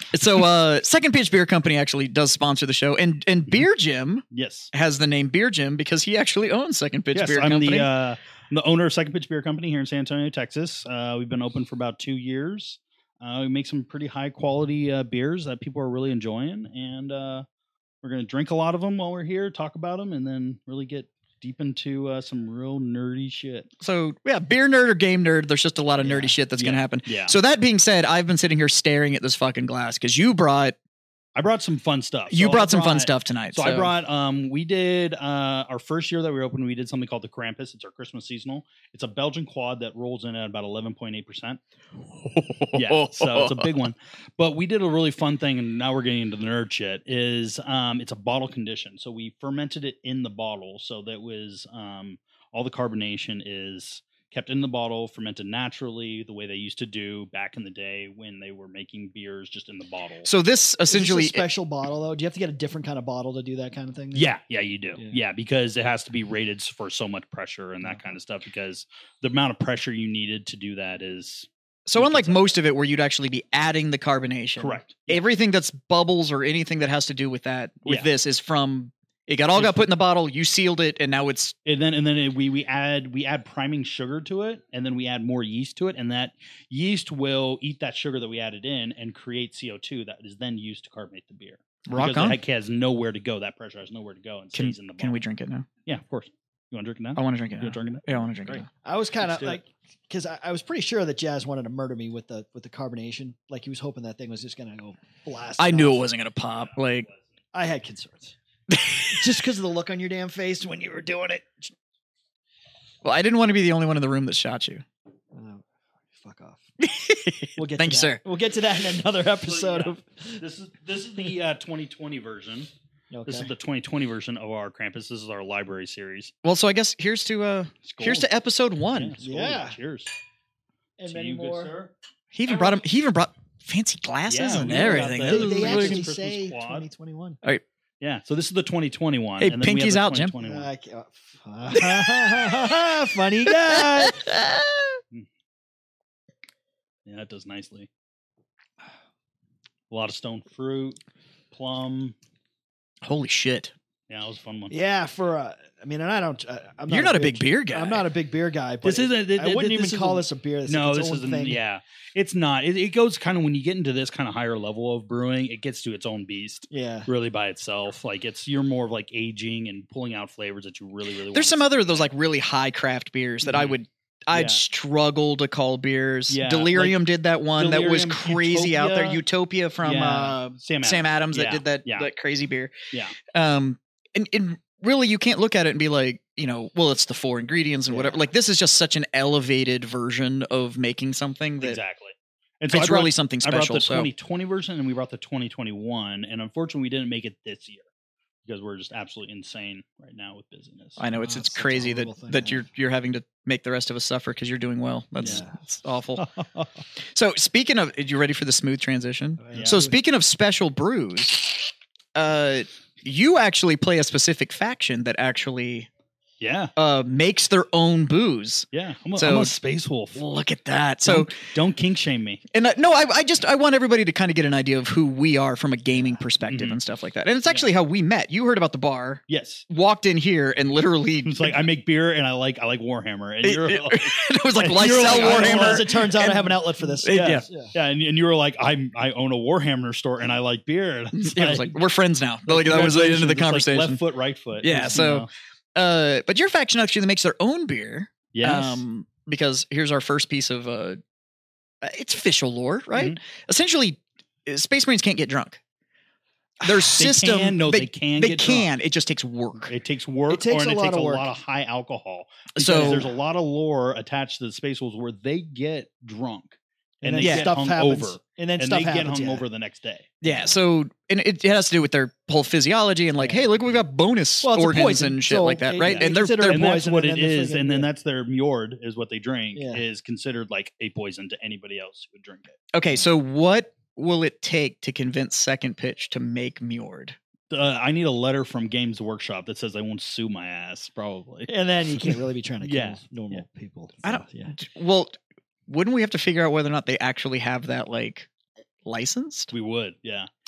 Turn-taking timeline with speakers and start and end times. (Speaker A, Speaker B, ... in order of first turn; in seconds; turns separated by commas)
Speaker A: 0.1-7.9, Speaker B: 4.3-4.7, Speaker B: 7.1-17.4, Speaker B: 18.0-23.7, Speaker A: 23.8-30.8, Speaker C: 26.0-26.3, Speaker B: 26.6-27.3, Speaker B: 31.3-41.6, Speaker A: 32.3-33.9, Speaker A: 42.2-43.7, Speaker B: 42.7-60.3, Speaker A: 60.2-61.4, Speaker C: 60.9-64.3, Speaker B: 64.1-72.5, Speaker A: 71.8-81.5, Speaker B: 74.6-75.2, Speaker B: 79.5-79.9, Speaker B: 81.7-95.2, Speaker A: 91.9-92.4, Speaker A: 94.5-95.7, Speaker B: 95.8-98.6, Speaker A: 97.2-98.7, Speaker C: 98.8-106.0, Speaker B: 99.2-99.6, Speaker A: 105.6-107.1, Speaker B: 106.5-107.2, Speaker C: 107.5-108.3, Speaker A: 108.7-109.1, Speaker C: 109.0-111.7, Speaker A: 113.0-114.8, Speaker C: 115.3-116.6, Speaker A: 116.8-118.2, Speaker C: 117.6-120.4, Speaker B: 119.4-122.7, Speaker C: 123.1-123.5, Speaker B: 123.2-126.3, Speaker A: 126.4-129.2, Speaker B: 127.8-128.3, Speaker B: 128.9-130.1, Speaker C: 129.2-129.8, Speaker C: 131.0-131.7, Speaker B: 131.1-131.9, Speaker A: 132.3-136.1, Speaker B: 134.3-136.8, Speaker C: 134.7-137.4, Speaker B: 138.0-140.7, Speaker A: 139.4-140.3, Speaker C: 140.4-144.2, Speaker A: 143.7-145.0, Speaker B: 147.1-147.9, Speaker B: 149.9-151.0, Speaker B: 151.5-152.1, Speaker A: 153.0-153.7, Speaker B: 154.1-154.7, Speaker C: 154.7-161.6, Speaker A: 156.9-158.0, Speaker B: 158.8-172.1, Speaker C: 166.7-167.1, Speaker A: 171.3-182.7, Speaker B: 173.4-173.8, Speaker B: 174.3-174.6, Speaker B: 176.3-177.0, Speaker B: 177.6-179.2, Speaker B: 179.8-182.1, Speaker B: 182.9-183.2, Speaker A: 183.3-191.8, Speaker B: 191.6-197.9, Speaker A: 192.7-194.1, Speaker B: 198.4-201.0, Speaker A: 201.0-206.3, Speaker C: 201.1-202.6, Speaker B: 205.2-205.4, Speaker C: 205.2-205.5, Speaker B: 206.2-206.7, Speaker A: 207.1-215.9, Speaker C: 209.4-210.0, Speaker B: 216.4-216.7, Speaker A: 216.8-219.6, Speaker B: 218.7-220.2, Speaker A: 220.1-221.4, Speaker B: 221.1-222.4, Speaker A: 222.5-231.6, Speaker B: 226.4-226.8, Speaker B: 229.3-229.7, Speaker B: 231.2-236.1, Speaker A: 233.4-237.4, Speaker C: 234.8-237.7, Speaker B: 237.0-241.8, Speaker A: 241.1-244.0, Speaker B: 242.5-245.3, Speaker A: 244.6-251.0, Speaker B: 248.3-248.8, Speaker A: 251.8-255.6, Speaker B: 252.9-253.2, Speaker A: 256.6-259.7, Speaker B: 256.7-258.7, Speaker B: 259.7-270.1, Speaker C: 260.3-261.3, Speaker A: 262.6-263.1, Speaker C: 267.0-269.4, Speaker A: 267.2-267.5, Speaker A: 270.2-276.6, Speaker C: 270.2-270.5, Speaker C: 273.2-273.4, Speaker C: 274.4-277.9, Speaker B: 275.9-282.6, Speaker C: 279.5-279.8, Speaker A: 282.7-287.1, Speaker B: 287.5-293.4, Speaker C: 291.5-294.5, Speaker A: 294.0-295.1, Speaker A: 295.7-298.3, Speaker A: 298.8-299.5, Speaker B: 299.5-300.3